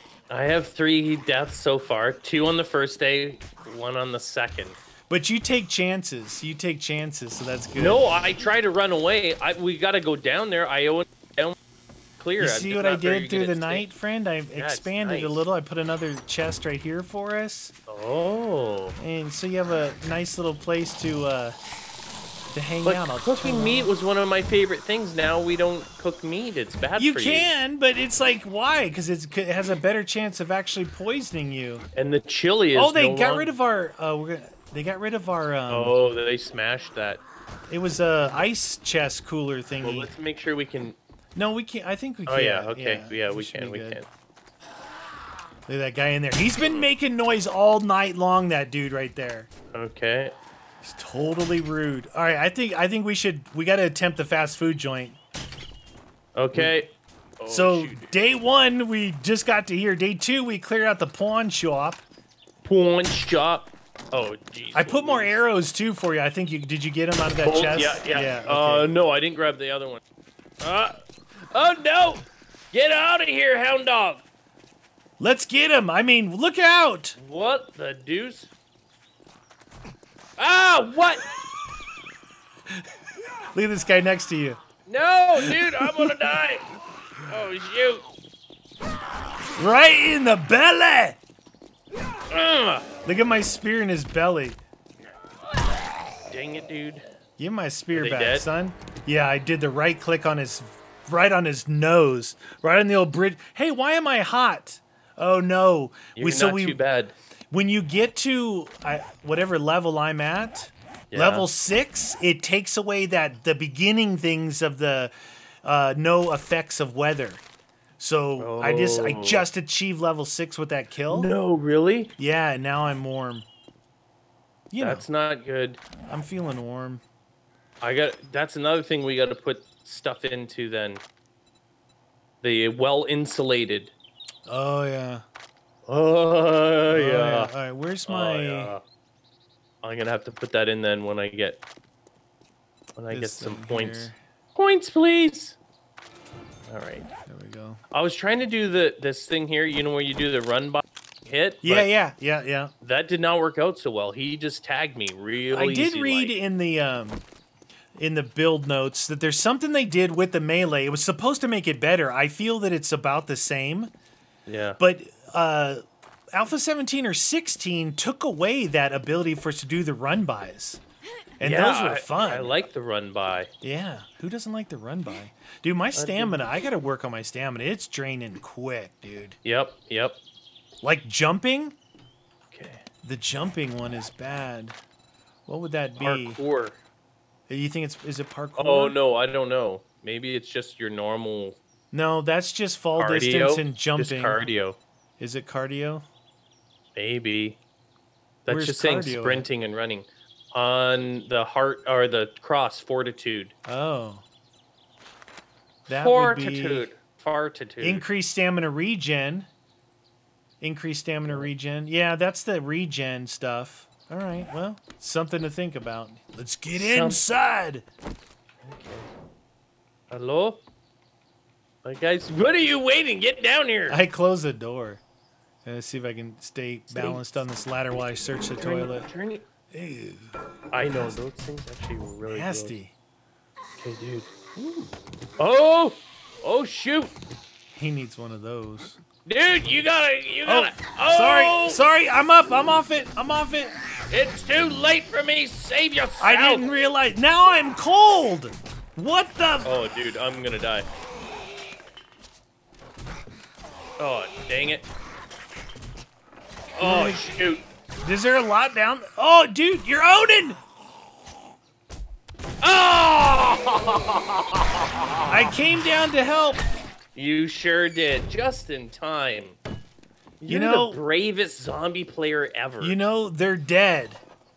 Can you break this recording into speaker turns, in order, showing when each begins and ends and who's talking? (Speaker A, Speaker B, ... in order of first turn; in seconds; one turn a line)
Speaker A: 0.3-4.8
Speaker B: 5.1-8.0
Speaker A: 7.8-11.6
Speaker A: 12.2-13.9
Speaker B: 12.4-17.7
Speaker A: 14.6-15.4
Speaker A: 17.9-19.0
Speaker B: 19.0-21.6
Speaker B: 22.5-23.9
Speaker A: 22.8-27.5
Speaker B: 27.0-31.8
Speaker A: 31.9-33.5
Speaker B: 32.7-35.9
Speaker A: 35.7-37.2
Speaker B: 37.7-40.1
Speaker A: 39.8-41.0
Speaker B: 41.3-44.0
Speaker A: 42.3-44.1
Speaker B: 45.7-49.5
Speaker A: 46.6-46.9
Speaker A: 49.7-50.3
Speaker B: 50.8-55.2
Speaker A: 56.4-58.1
Speaker B: 57.5-62.0
Speaker A: 62.6-65.4
Speaker B: 64.7-68.9
Speaker A: 67.4-70.0
Speaker A: 70.6-71.0
Speaker A: 71.5-74.2
Speaker B: 75.2-77.2
Speaker A: 77.2-78.5
Speaker A: 80.4-81.3
Speaker B: 83.5-84.6
Speaker A: 84.8-86.6
Speaker B: 85.4-86.3
Speaker A: 87.3-88.0
Speaker B: 89.6-91.2
Speaker A: 92.3-92.9
Speaker B: 93.0-94.6
Speaker A: 96.3-97.0
Speaker B: 97.4-106.8
Speaker A: 97.9-98.5
Speaker A: 106.1-107.1
Speaker B: 107.5-115.1
Speaker A: 111.1-111.5
Speaker B: 115.6-117.4
Speaker B: 118.0-121.3
Speaker A: 118.4-119.4
Speaker A: 121.1-122.1
Speaker B: 122.2-123.5
Speaker B: 124.7-125.0
Speaker A: 124.8-125.8
Speaker B: 126.1-127.0
Speaker A: 127.8-131.0
Speaker A: 132.4-133.9
Speaker B: 134.4-135.2
Speaker A: 135.9-137.5
Speaker B: 136.9-138.7
Speaker A: 138.1-138.8
Speaker A: 139.8-141.6
Speaker A: 142.9-145.6
Speaker B: 143.1-144.2
Speaker A: 146.7-147.1
Speaker B: 147.3-147.8
Speaker A: 147.9-151.9
Speaker B: 151.6-152.7
Speaker A: 152.8-156.3
Speaker B: 155.5-157.2
Speaker B: 157.9-163.9
Speaker A: 164.5-164.8
Speaker B: 164.8-165.8
Speaker B: 166.3-170.8
Speaker B: 171.4-172.5
Speaker A: 171.4-173.5
Speaker B: 173.6-179.4
Speaker A: 175.9-176.4
Speaker A: 179.4-180.2
Speaker B: 180.8-181.8
Speaker A: 182.5-182.8
Speaker B: 183.0-184.8
Speaker B: 185.5-186.4
Speaker A: 185.9-186.8
Speaker B: 187.5-189.0
Speaker A: 188.6-191.6
Speaker B: 191.9-194.4
Speaker A: 193.0-194.8
Speaker B: 195.2-196.1
Speaker A: 196.9-197.6
Speaker A: 198.4-203.5
Speaker B: 198.5-199.4
Speaker B: 203.6-204.2
Speaker B: 205.9-206.9
Speaker A: 205.9-208.1
Speaker B: 207.8-209.5
Speaker B: 210.6-217.8
Speaker A: 211.2-211.5
Speaker A: 216.7-217.2
Speaker A: 218.6-219.1
Speaker A: 220.1-220.6
Speaker A: 221.8-224.0
Speaker B: 223.9-225.0
Speaker B: 225.6-229.1
Speaker A: 226.9-227.4
Speaker A: 228.6-229.4
Speaker B: 229.7-230.3
Speaker A: 230.7-232.8
Speaker B: 232.2-232.9
Speaker A: 233.8-237.1
Speaker B: 237.7-239.0
Speaker A: 239.2-241.8
Speaker B: 240.4-243.7
Speaker A: 244.1-246.6
Speaker B: 246.2-249.7
Speaker A: 249.6-250.9
Speaker A: 254.0-254.9
Speaker A: 256.7-257.6
Speaker B: 256.8-257.4
Speaker B: 258.0-260.6
Speaker A: 262.6-265.5
Speaker B: 265.3-266.6
Speaker A: 267.1-269.6
Speaker A: 270.4-273.0
Speaker B: 270.5-271.0
Speaker B: 272.8-274.2